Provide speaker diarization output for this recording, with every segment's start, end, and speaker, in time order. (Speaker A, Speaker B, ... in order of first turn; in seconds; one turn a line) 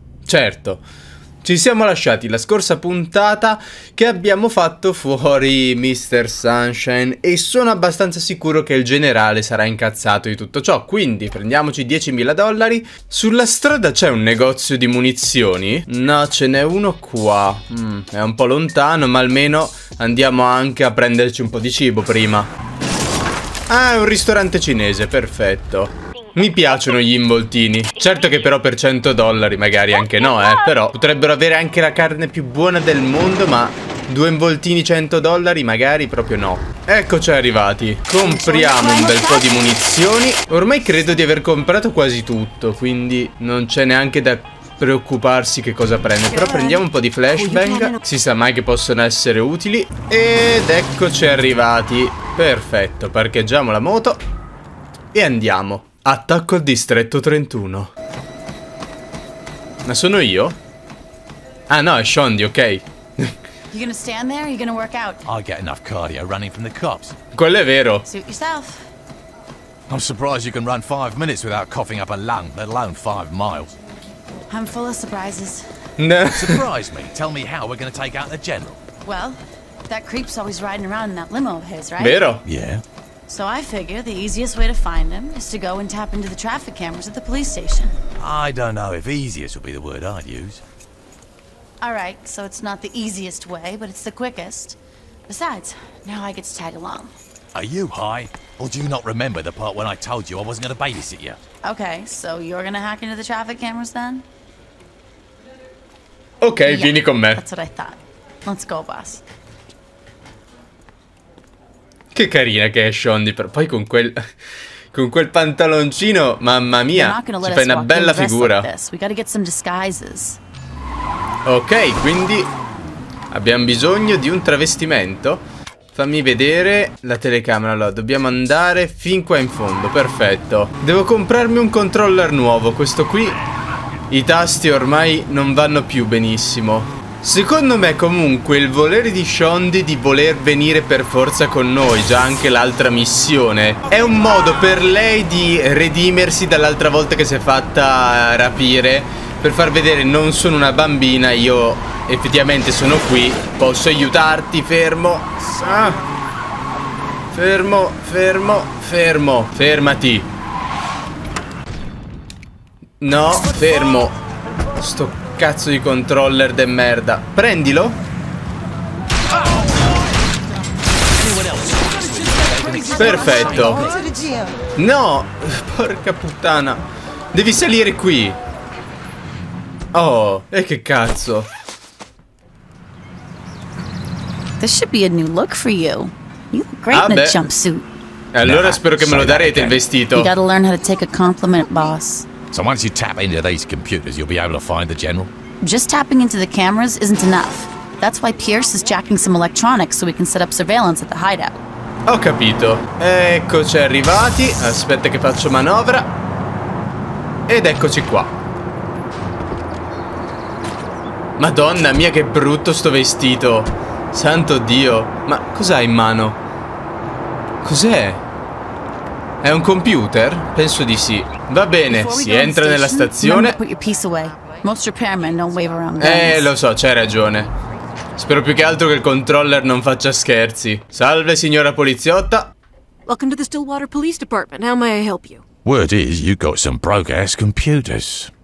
Speaker A: 0.2-0.8
Speaker A: 1.4-22.5
Speaker A: 23.7-54.2
Speaker B: 38.2-39.6
Speaker C: 38.5-38.8
Speaker C: 46.3-46.8
Speaker C: 47.3-48.0
Speaker A: 55.1-57.9
Speaker A: 59.9-60.6
Speaker A: 61.7-63.3
Speaker B: 63.7-65.2
Speaker D: 65.2-67.2
Speaker A: 67.3-68.0
Speaker B: 68.0-68.9
Speaker D: 69.9-73.8
Speaker B: 74.5-75.6
Speaker A: 76.0-76.7
Speaker D: 76.3-78.8
Speaker B: 79.0-82.2
Speaker A: 82.0-82.4
Speaker D: 82.4-82.8
Speaker B: 83.3-87.9
Speaker D: 88.2-90.6
Speaker B: 91.8-97.1
Speaker D: 97.5-101.4
Speaker B: 101.6-104.2
Speaker A: 106.4-107.4
Speaker B: 106.6-109.2
Speaker A: 112.1-114.2
Speaker A: 114.9-118.7
Speaker B: 116.9-120.4
Speaker A: 121.5-122.5
Speaker A: 123.3-133.4
Speaker A: 134.1-156.0
Speaker A: 157.3-160.3
Speaker A: 163.0-164.1
Speaker A: 164.8-168.0
Speaker D: 171.2-174.1
Speaker A: 172.9-173.9
Speaker C: 173.1-173.6
Speaker A: 174.8-176.8
Speaker A: 177.3-178.4
Speaker A: 179.9-181.5
Speaker B: 184.6-187.8
Speaker A: 186.9-187.4
Speaker A: 188.3-190.3
Speaker D: 188.4-189.9
Speaker B: 190.1-192.3
Speaker D: 192.5-195.3
Speaker B: 195.6-201.6
Speaker A: 202.1-206.1
Speaker A: 207.5-208.3
Speaker A: 211.4-216.4
Speaker A: 217.6-218.2
Speaker A: 219.4-223.6
Speaker B: 221.9-226.5
Speaker A: 226.0-227.5
Speaker A: 228.2-232.5
Speaker C: 233.1-235.4
Speaker D: 235.6-238.3